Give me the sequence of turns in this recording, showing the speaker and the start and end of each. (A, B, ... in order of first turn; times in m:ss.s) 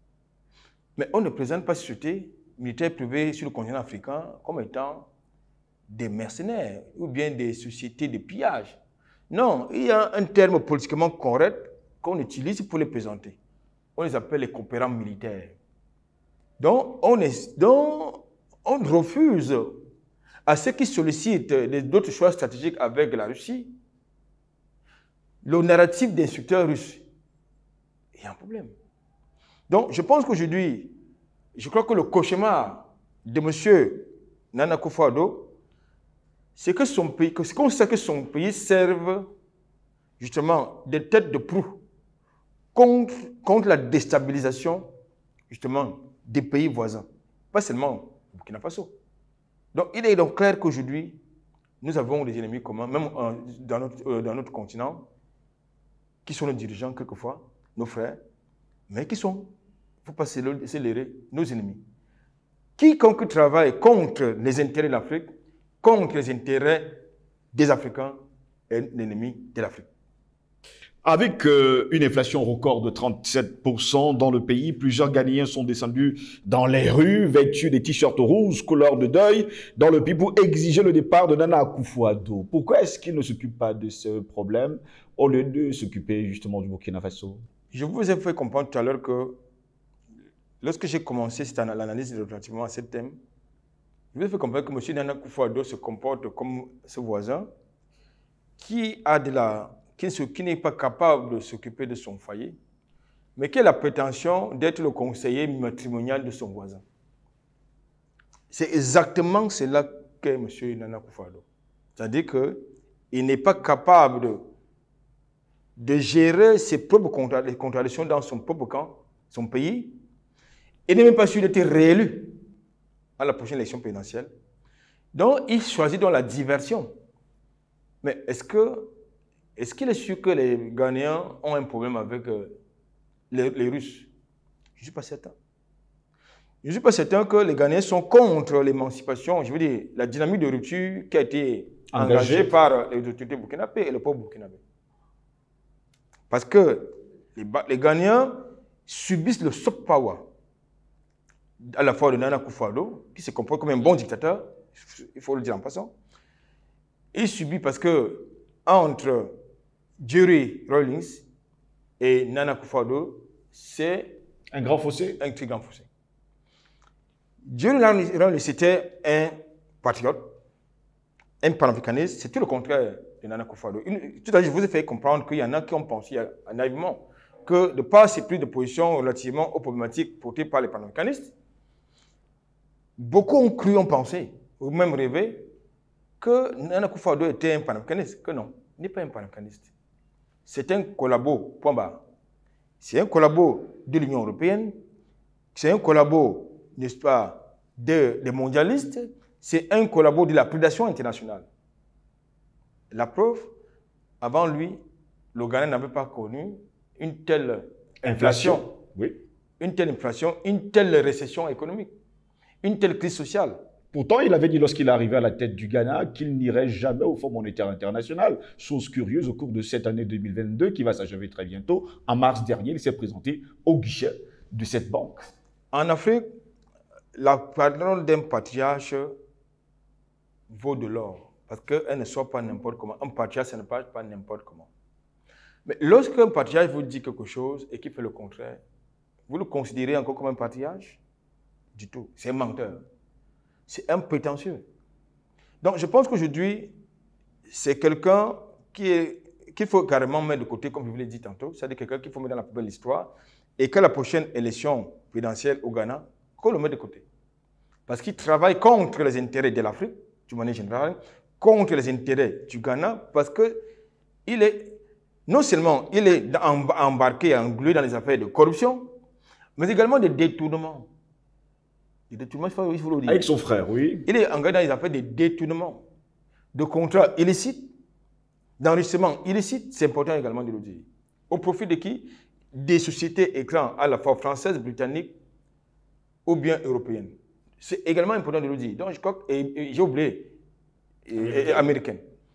0:01.0-0:05.1 A
0:05.9-0:08.8 A
0:09.3-0:13.4 A
0:14.0-0:15.6 A
0:16.6-0:19.8 A
0:20.5-0:23.7 A
0:25.4-0:27.0 A
0:28.1-0:28.7 A
0:29.7-0:30.9 A
0:31.6-0:35.5 A
0:36.6-0:39.3 A
0:40.2-0:41.8 A
0:42.7-0:44.9 A
0:45.5-0:48.9 A
0:49.7-0:51.2 A
0:51.8-0:55.1 A
0:56.2-0:58.2 A
0:58.9-1:01.8 A
1:02.8-1:05.3 A
1:05.8-1:07.0 A
1:07.5-1:08.2 A
1:08.7-1:09.9 A
1:11.0-1:27.4 B
1:27.7-1:29.4 A
1:30.6-1:33.2 A
1:34.1-1:37.5 A
1:38.6-1:42.6 A
1:43.4-1:46.8 A
1:48.5-1:51.4 A
1:52.0-1:54.4 A
1:55.8-2:00.0 A
2:00.9-2:02.4 A
2:03.2-2:04.3 A
2:05.1-2:06.9 A
2:08.0-2:08.9 A
2:09.6-2:12.6 A
2:13.3-2:14.1 A
2:14.8-2:15.4 A
2:16.6-2:24.6 A
2:21.9-2:22.5 B
2:26.3-2:30.3 A
2:31.7-2:35.9 A
2:37.1-2:39.3 A
2:40.0-2:41.2 A
2:42.0-2:44.2 A
2:44.5-2:45.2 B
2:45.2-2:45.9 A
2:47.4-2:50.3 A
2:51.4-3:01.3 A
3:03.0-3:05.5 A
3:06.2-3:09.7 A
3:10.5-3:12.0 A
3:12.8-3:14.7 A
3:15.5-3:21.5 A
3:22.9-3:23.5 A
3:24.2-3:24.8 A
3:25.3-3:28.7 A
3:28.0-3:29.2 B
3:29.6-3:31.9 A
3:32.6-3:33.6 A
3:33.9-3:45.3 B
3:45.7-3:46.3 A
3:47.2-3:49.1 A
3:50.5-3:54.7 A
3:55.7-3:58.6 A
3:59.3-4:01.0 A
4:01.8-4:02.8 A
4:03.7-4:04.7 A
4:05.6-4:06.7 A
4:07.5-4:17.0 A
4:17.9-4:23.6 A
4:24.3-4:28.9 A
4:29.6-4:30.9 A
4:32.1-4:33.3 A
4:33.0-4:34.1 B
4:34.1-4:35.8 A
4:36.5-4:37.7 A
4:38.6-4:45.2 A
4:46.3-4:50.3 A
4:51.1-4:52.0 A